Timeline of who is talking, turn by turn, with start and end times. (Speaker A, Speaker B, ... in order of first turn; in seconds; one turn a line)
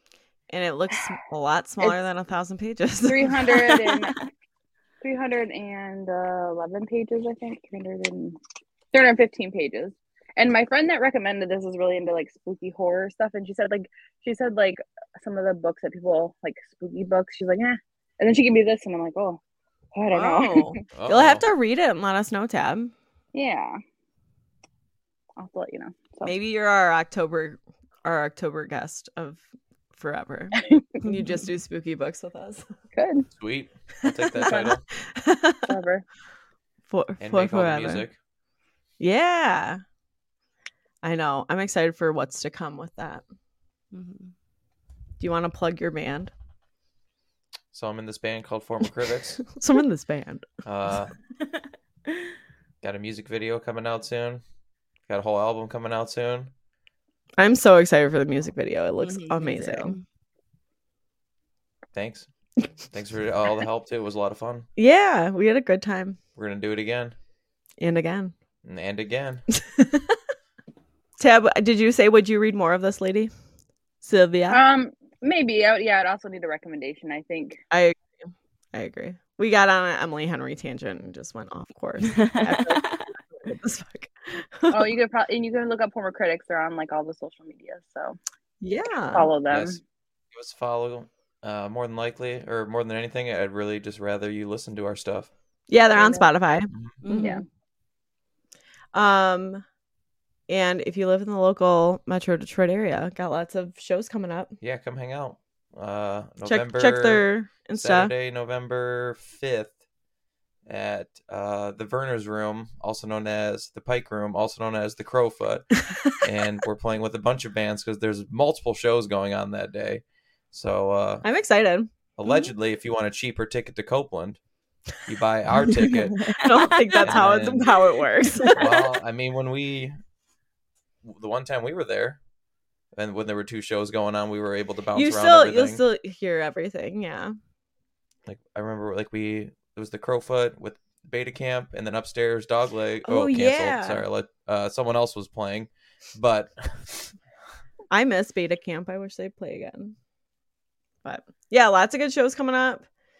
Speaker A: 0.5-3.9
Speaker B: 3.0-4.3
Speaker B: 5.0-8.4
Speaker B: 8.9-19.4
Speaker B: 19.9-20.8
Speaker A: 20.1-22.9
Speaker C: 20.9-21.4
Speaker B: 23.3-23.8
Speaker B: 25.4-26.3
Speaker A: 26.2-32.6
Speaker B: 32.9-33.3
Speaker C: 33.4-34.8
Speaker A: 34.1-35.7
Speaker B: 34.4-34.8
Speaker B: 35.6-36.0
Speaker A: 36.9-38.1
Speaker C: 37.2-38.1
Speaker A: 39.0-39.8
Speaker A: 41.0-43.2
Speaker D: 43.9-44.3
Speaker A: 45.2-46.3
Speaker C: 47.7-49.5
Speaker A: 49.5-50.5
Speaker C: 50.6-51.1
Speaker D: 51.5-52.3
Speaker C: 52.8-54.4
Speaker C: 55.1-56.5
Speaker A: 57.4-60.0
Speaker D: 59.0-60.0
Speaker C: 61.9-62.3
Speaker C: 62.9-64.7
Speaker A: 64.8-66.2
Speaker C: 66.3-67.1
Speaker A: 67.8-68.3
Speaker C: 68.6-69.4
Speaker A: 69.5-70.2
Speaker A: 71.2-73.3
Speaker A: 74.0-74.6
Speaker B: 74.5-77.6
Speaker A: 77.7-84.9
Speaker D: 82.0-83.0
Speaker B: 84.7-88.2
Speaker A: 88.6-89.3
Speaker B: 89.1-89.8
Speaker C: 89.5-89.8
Speaker C: 90.3-95.3
Speaker A: 95.7-97.4
Speaker B: 96.0-96.3
Speaker C: 96.7-97.0
Speaker D: 97.0-97.4
Speaker B: 97.2-97.4
Speaker A: 98.9-99.6
Speaker A: 100.5-104.6
Speaker C: 104.6-109.8
Speaker A: 106.4-108.1
Speaker C: 110.7-121.2
Speaker A: 121.2-121.9
Speaker C: 122.2-124.4
Speaker D: 122.2-122.5
Speaker C: 125.0-126.3
Speaker A: 125.6-128.8
Speaker D: 126.0-127.0
Speaker C: 126.9-127.7
Speaker C: 128.5-129.9
Speaker C: 131.0-132.2
Speaker C: 133.0-135.8
Speaker A: 134.9-137.3
Speaker C: 138.2-147.1
Speaker A: 143.0-144.0
Speaker A: 147.9-149.9
Speaker A: 151.0-152.8